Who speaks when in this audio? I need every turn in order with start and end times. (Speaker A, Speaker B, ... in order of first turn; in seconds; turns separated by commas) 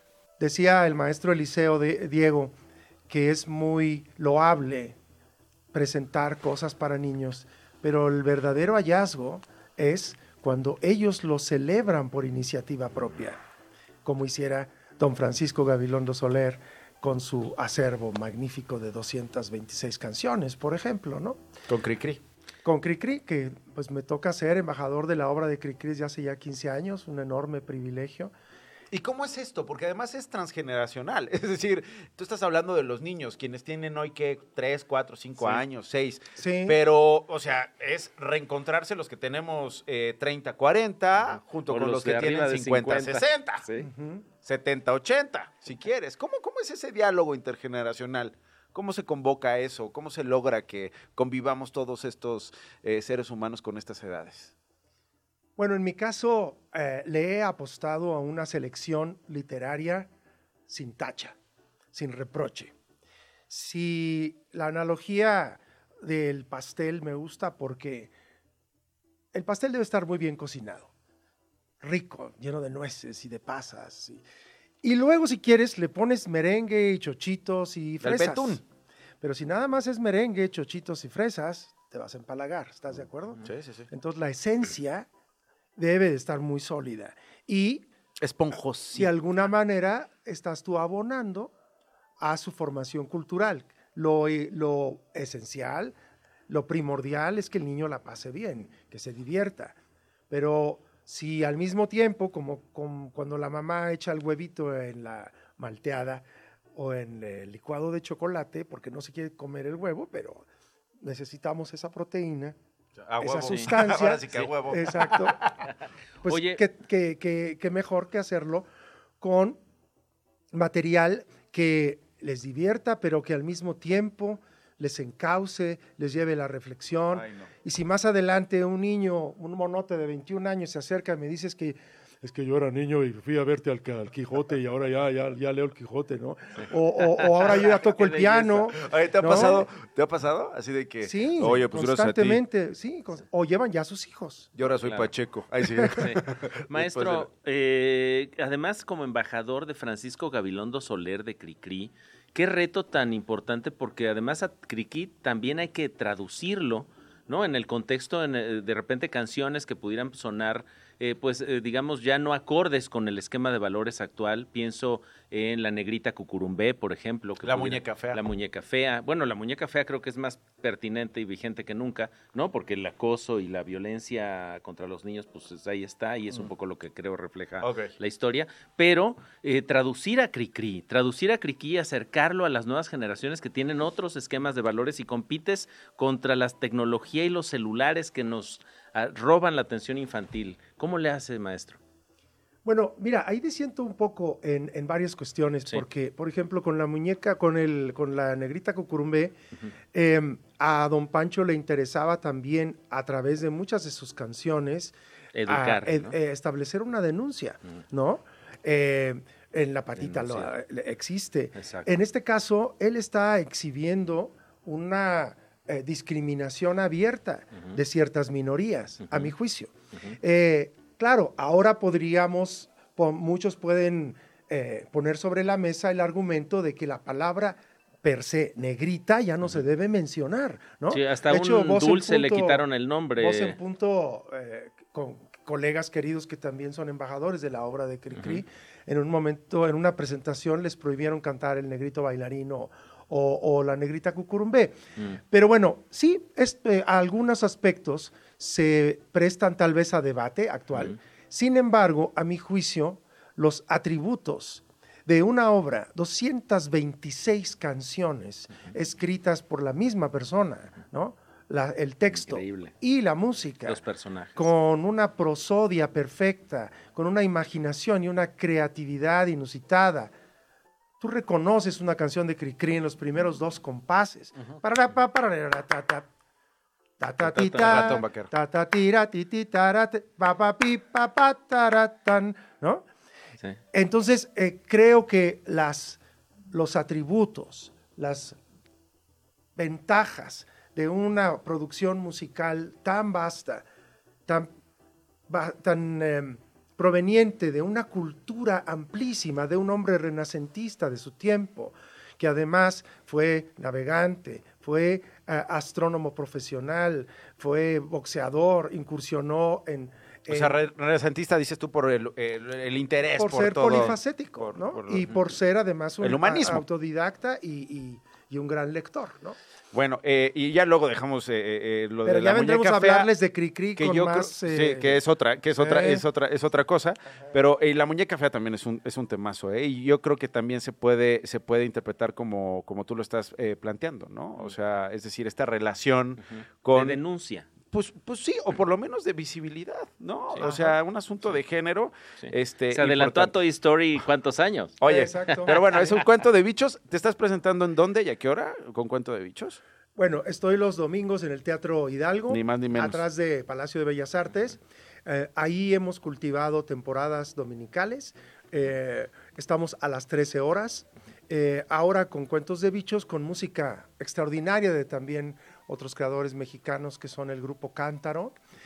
Speaker A: 0.4-2.5, Speaker A: 3.1-5.0, Speaker A: 5.7-13.4, Speaker A: 14.0-21.4, Speaker B: 21.7-22.2, Speaker A: 22.6-28.3, Speaker B: 28.9-43.6, Speaker C: 35.4-35.6, Speaker A: 36.4-36.8, Speaker C: 41.7-43.9, Speaker A: 43.8-44.2, Speaker B: 44.4-54.5, Speaker A: 55.6-60.1, Speaker A: 60.7-61.4, Speaker A: 61.9-62.7, Speaker A: 63.5-68.1, Speaker A: 69.3-70.9, Speaker A: 71.8-74.2, Speaker A: 74.8-78.6, Speaker B: 78.0-78.6, Speaker A: 79.2-85.1, Speaker B: 83.4-83.9, Speaker A: 85.8-87.9, Speaker B: 88.2-89.1, Speaker A: 88.9-91.5, Speaker A: 92.2-96.0, Speaker A: 96.5-99.8, Speaker A: 100.3-106.2, Speaker A: 106.7-110.5, Speaker A: 111.0-112.5, Speaker B: 113.0-115.4, Speaker A: 113.2-115.4, Speaker C: 113.4-113.8, Speaker A: 116.2-118.7, Speaker C: 116.2-116.6, Speaker A: 119.2-119.6, Speaker A: 120.5-139.7, Speaker B: 127.1-127.5, Speaker C: 137.2-138.7, Speaker B: 138.7-142.4, Speaker A: 141.0-144.5, Speaker B: 144.6-147.3, Speaker C: 144.8-145.1, Speaker C: 146.7-191.8, Speaker B: 167.4-168.2, Speaker B: 177.6-177.9, Speaker A: 192.6-199.3, Speaker A: 199.9-204.9, Speaker C: 205.3-206.2, Speaker A: 205.4-232.7, Speaker C: 210.0-210.5, Speaker C: 211.6-211.9, Speaker C: 230.9-233.6, Speaker A: 233.2-244.8, Speaker C: 238.1-238.4, Speaker A: 245.3-263.8, Speaker C: 262.1-262.7, Speaker C: 263.6-264.5, Speaker A: 264.4-270.1, Speaker A: 271.0-276.1, Speaker A: 277.0-282.8, Speaker B: 277.2-278.3, Speaker A: 283.7-286.0, Speaker A: 286.5-288.4, Speaker A: 289.6-293.6, Speaker A: 295.3-310.6, Speaker B: 310.3-315.2, Speaker A: 313.1-319.4, Speaker B: 316.0-316.6, Speaker B: 319.7-323.1, Speaker A: 322.0-325.0, Speaker B: 323.8-337.0, Speaker A: 325.5-326.1, Speaker C: 336.7-337.5, Speaker B: 337.7-343.4, Speaker A: 340.4-340.8, Speaker C: 342.2-346.0, Speaker B: 344.8-349.6, Speaker A: 344.8-345.6, Speaker A: 349.9-368.4, Speaker B: 352.3-353.0